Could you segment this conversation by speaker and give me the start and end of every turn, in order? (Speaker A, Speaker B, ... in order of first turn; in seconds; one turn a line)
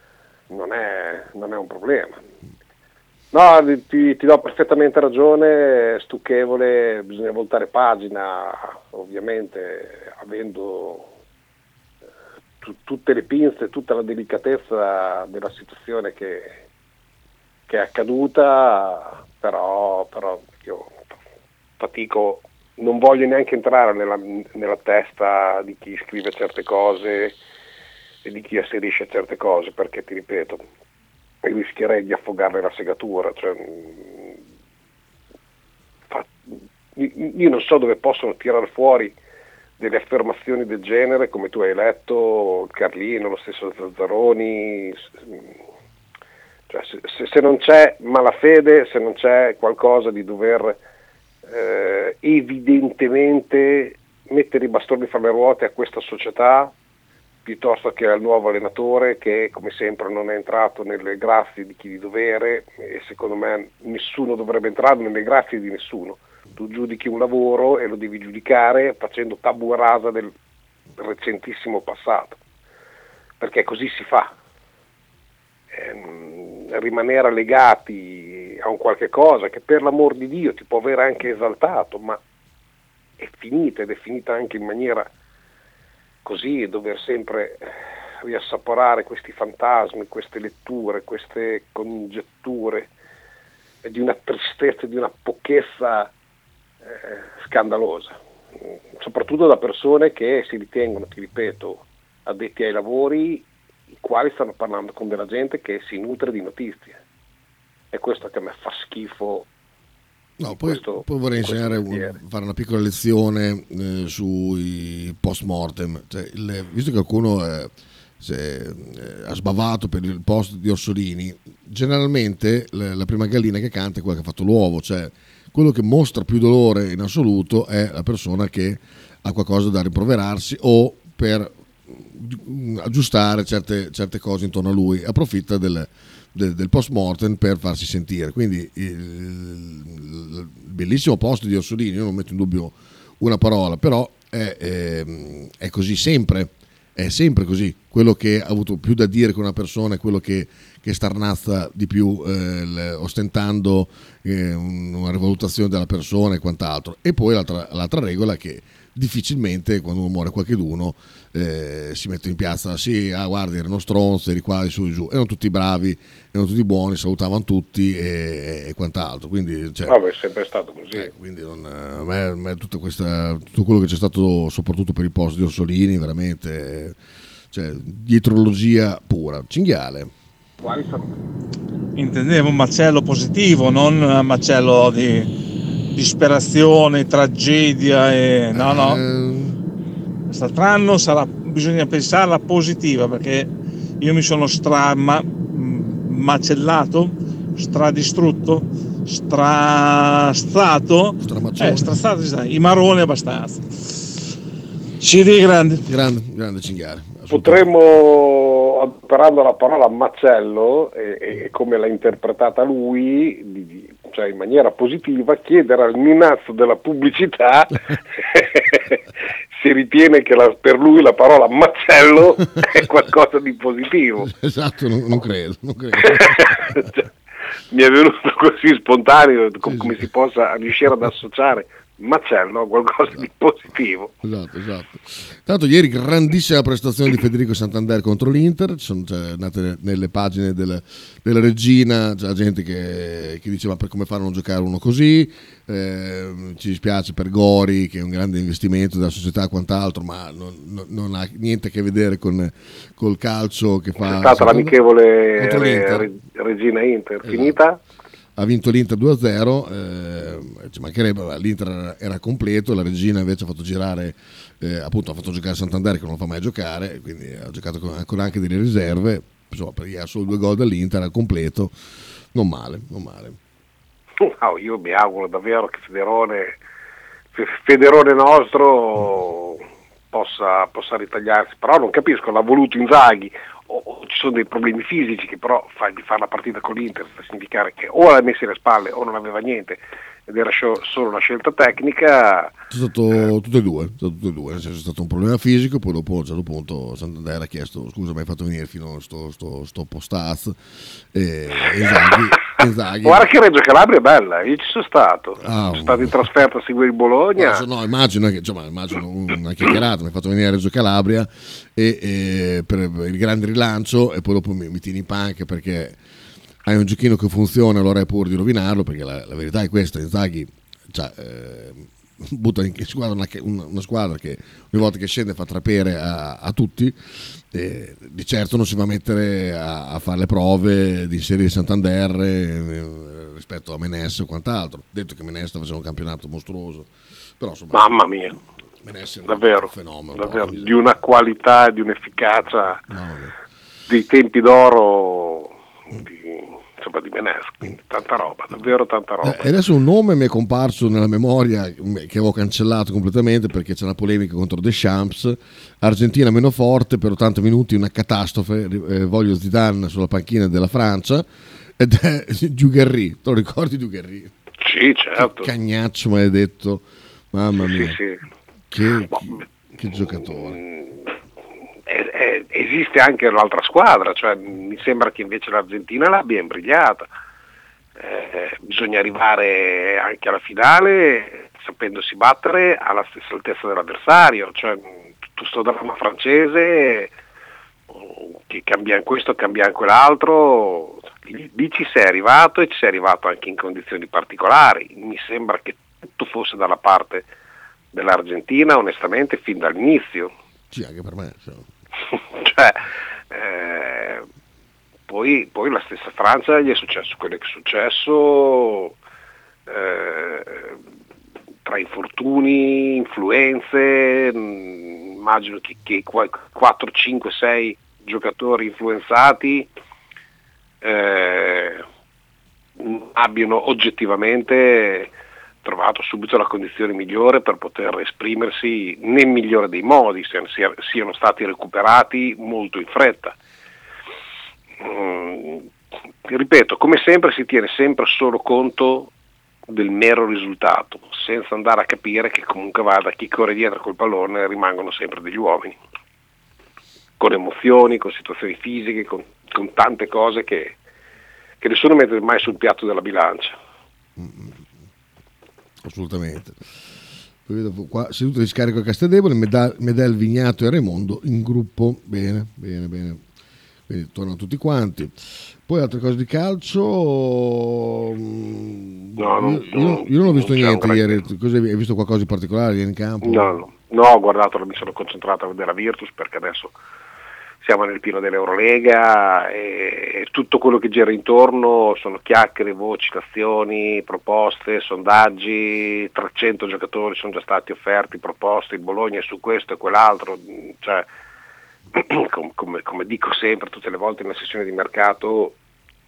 Speaker A: 0.5-2.2
Speaker A: 3.3-11.1
Speaker A: 12.6-16.6
Speaker A: 17.7-21.1
Speaker A: 21.8-27.4
Speaker A: 28.2-30.6
Speaker A: 31.4-34.4
Speaker A: 36.1-39.2
Speaker A: 39.8-45.6
Speaker A: 46.7-50.8
Speaker A: 51.5-56.7
Speaker A: 57.5-70.3
Speaker A: 71.0-72.4
Speaker A: 73.4-74.3
Speaker A: 75.7-82.2
Speaker A: 83.2-85.1
Speaker A: 86.2-92.9
Speaker A: 93.8-96.1
Speaker A: 96.8-98.2
Speaker A: 99.0-103.5
Speaker A: 104.0-107.0
Speaker A: 107.9-109.5
Speaker B: 110.4-170.0
Speaker A: 110.5-112.2
Speaker A: 169.9-171.1
Speaker B: 170.9-177.0
Speaker B: 177.5-180.1
Speaker A: 180.6-181.1
Speaker C: 182.0-185.3
Speaker C: 185.9-189.0
Speaker B: 188.5-189.6
Speaker C: 190.3-204.1
Speaker B: 201.2-201.9
Speaker C: 205.0-205.8
Speaker B: 205.8-207.7
Speaker A: 207.3-219.0
Speaker A: 219.5-224.3
Speaker B: 224.2-226.9
Speaker A: 226.0-227.1
Speaker A: 227.7-234.1
Speaker B: 229.7-230.0
Speaker B: 234.2-254.7
Speaker A: 254.0-257.8
Speaker B: 255.4-256.1
Speaker B: 257.2-257.6
Speaker B: 258.4-271.7
Speaker B: 272.3-273.4
Speaker A: 274.2-276.6
Speaker A: 277.3-292.5
Speaker B: 292.7-303.3
Speaker A: 302.0-307.7
Speaker B: 305.4-306.2
Speaker B: 307.4-316.0
Speaker B: 316.7-338.1
Speaker A: 337.7-338.4
Speaker B: 338.8-340.8
Speaker A: 339.3-342.8
Speaker B: 342.9-343.4
Speaker A: 343.9-349.5
Speaker B: 349.2-361.3
Speaker B: 361.8-364.3
Speaker A: 364.6-365.5
Speaker B: 365.2-368.0
Speaker A: 367.6-368.2
Speaker B: 368.7-370.6
Speaker A: 370.2-371.2
Speaker A: 371.9-377.1
Speaker A: 378.0-387.1
Speaker A: 387.9-397.3
Speaker A: 397.9-400.3
Speaker B: 400.7-401.7
Speaker A: 402.1-404.3
Speaker A: 405.1-409.0
Speaker A: 409.7-410.8
Speaker A: 411.6-419.7
Speaker A: 420.8-421.8
Speaker A: 422.8-425.1
Speaker A: 425.6-433.4
Speaker A: 434.8-435.7
Speaker A: 436.2-439.1
Speaker A: 439.7-445.8
Speaker A: 447.2-450.8
Speaker A: 451.6-453.6
Speaker B: 454.2-454.7
Speaker B: 455.8-456.6
Speaker B: 457.5-463.2
Speaker B: 463.9-473.6
Speaker A: 469.2-471.2
Speaker A: 473.2-476.8
Speaker A: 477.6-491.1
Speaker A: 491.9-495.6